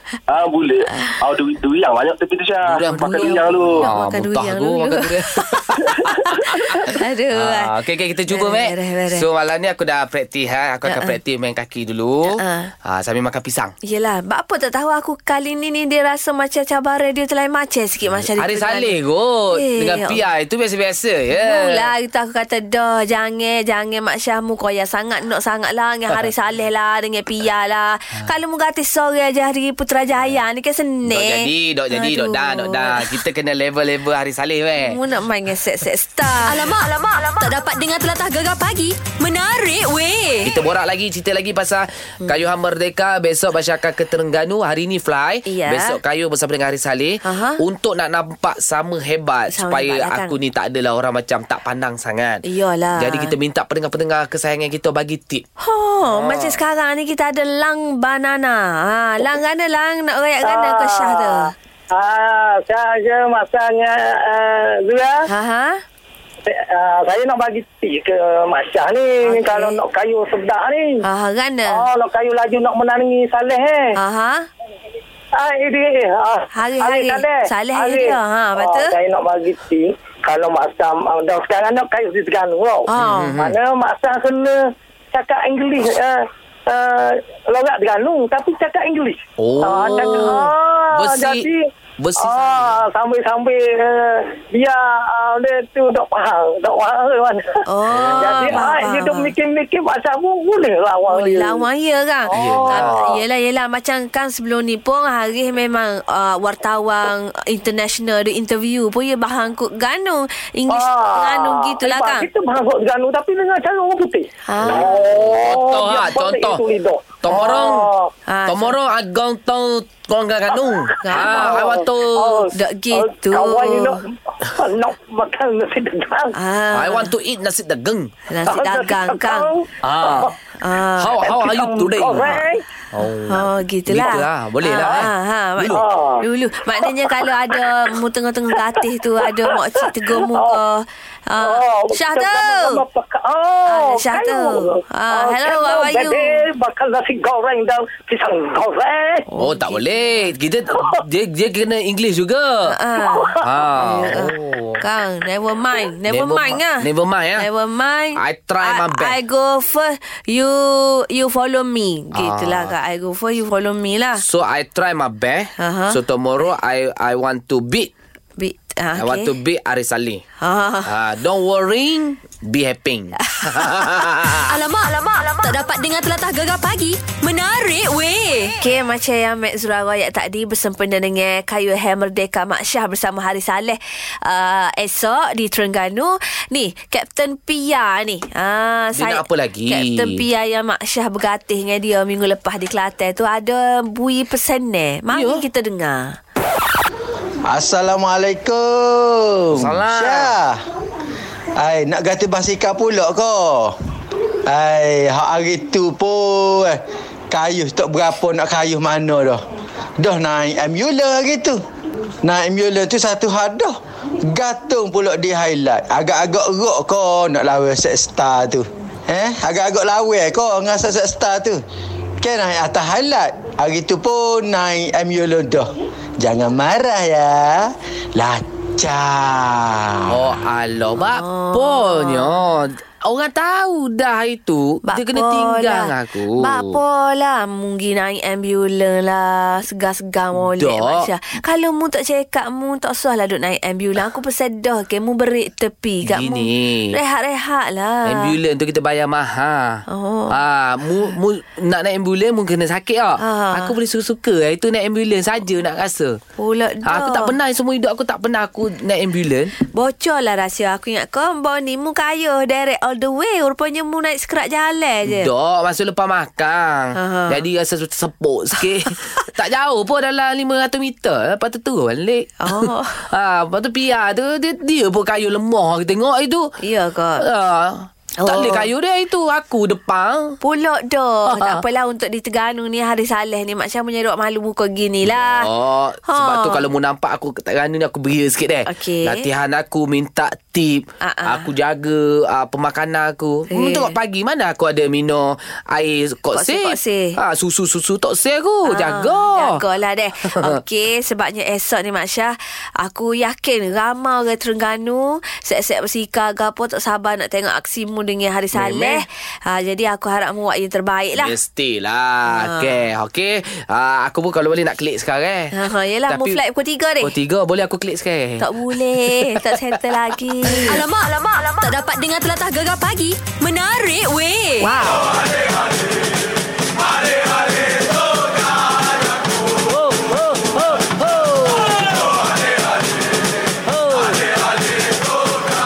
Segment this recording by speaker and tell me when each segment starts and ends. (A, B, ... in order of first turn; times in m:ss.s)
0:00.3-0:03.9 A
0:02.7-0:05.5 B
0:03.8-0:07.7 C
0:05.9-0:06.6 A
0:07.4-0:13.7 B
0:08.3-0:09.3 C
0:10.9-0:11.2 C
0:12.4-0:12.7 C
0:13.9-0:19.0 C
0:18.4-0:21.9 B
0:19.5-0:20.2 C
0:21.3-0:33.2 C
0:31.0-0:35.0 B
0:34.8-0:36.6 C
0:36.4-0:40.6 D
0:40.4-0:52.4 B
0:45.5-0:46.0 C
0:47.2-0:47.6 C
0:49.5-0:50.4 C
0:52.4-0:53.4 C
0:53.0-0:55.4 B
0:55.6-1:01.5 C
0:56.0-0:56.6 B
1:00.4-1:05.2 E
1:05.3-1:05.8 C
1:06.5-1:11.0 E
1:09.3-1:09.8 C
1:11.0-1:11.8 C
1:11.7-1:13.8 E
1:14.0-1:14.5 C
1:15.4-1:24.6 E
1:16.6-1:18.9 C
1:22.9-1:23.4 C
1:23.0-1:23.6 B
1:25.1-1:31.6 E
1:29.4-1:31.5 B
1:30.1-1:30.3 C
1:32.0-1:32.8 B
1:32.2-1:41.7 E
1:37.7-1:39.3 C
1:37.9-1:38.7 B
1:41.1-1:52.3 C
1:42.3-1:43.2 E
1:42.4-1:43.0 B
1:50.7-1:58.1 E
1:54.5-1:55.1 C
1:54.7-1:56.6 B
1:57.2-1:57.9 B
1:57.3-1:57.7 C
1:58.3-1:58.8 C
1:58.5-2:02.4 B
2:01.0-2:06.4 E
2:01.0-2:01.8 C
2:02.5-2:04.0 C
2:06.4-2:07.1 C
2:06.7-2:08.1 B
2:08.3-2:09.5 C
2:08.4-2:10.3 E
2:09.8-2:10.3 B
2:10.6-2:11.2 C
2:10.9-2:12.3 B
2:11.2-2:12.6 E
2:12.9-2:15.8 B
2:13.3-2:22.8 C
2:15.7-2:16.2 E
2:16.8-2:17.6 E
2:19.2-2:20.6 E
2:21.4-2:29.2 E
2:23.7-2:26.4 C
2:29.3-2:30.3 C
2:29.4-2:32.7 B
2:32.7-2:36.9 C
2:33.0-2:33.4 E
2:33.4-2:34.8 B
2:36.1-2:37.5 B
2:37.4-2:44.2 C
2:38.2-2:39.2 B
2:42.1-2:42.7 B
2:44.2-2:47.9 B
2:45.6-2:46.0 C
2:48.4-2:49.3 C
2:49.0-2:50.2 B
2:50.4-2:50.9 C
2:50.8-2:54.6 B
2:53.4-2:54.0 C
2:54.4-2:58.6 D
2:58.6-3:16.2 C
3:08.9-3:10.2 B
3:15.1-3:15.5 B
3:17.5-3:20.6 F
3:19.5-3:20.4 B
3:21.6-3:23.7 F
3:24.5-3:26.8 F
3:27.3-3:29.4 F
3:30.0-3:31.6 F
3:32.2-3:33.8 F
3:34.3-3:41.6 F
3:42.2-3:45.7 F
3:46.2-3:50.4 F
3:50.1-3:56.8 B
3:51.1-3:52.4 C
3:54.8-4:08.4 C
4:00.4-4:01.1 B
4:06.0-4:07.0 B
4:08.1-4:16.2 B
4:09.9-4:10.4 C
4:13.2-4:13.8 C
4:16.4-4:17.4 C
4:16.8-4:19.5 B
4:19.6-4:25.3 C
4:25.0-4:36.5 B
4:27.0-4:27.4 C
4:28.6-4:29.0 C
4:32.4-4:33.0 C
4:36.6-4:37.2 C
4:37.2-4:40.3 B
4:38.2-4:38.7 C
4:40.4-4:45.5 C
4:41.3-4:41.6 B
4:45.0-4:59.6 B
4:46.1-4:46.7 C
4:48.7-4:49.3 C
4:51.0-4:51.5 C
4:53.5-4:54.0 C
4:56.3-4:57.2 C
4:58.7-5:11.4 C
5:08.5-5:09.0 B
5:11.2-5:15.5 B
5:12.3-5:12.8 C
5:15.5-5:17.1 C
5:16.1-5:16.4 B
5:17.0-5:19.5 B
5:18.4-5:20.8 C
5:20.7-5:24.7 D
5:24.6-5:25.0 C
5:29.7-5:31.7 B
5:33.7-5:34.2 B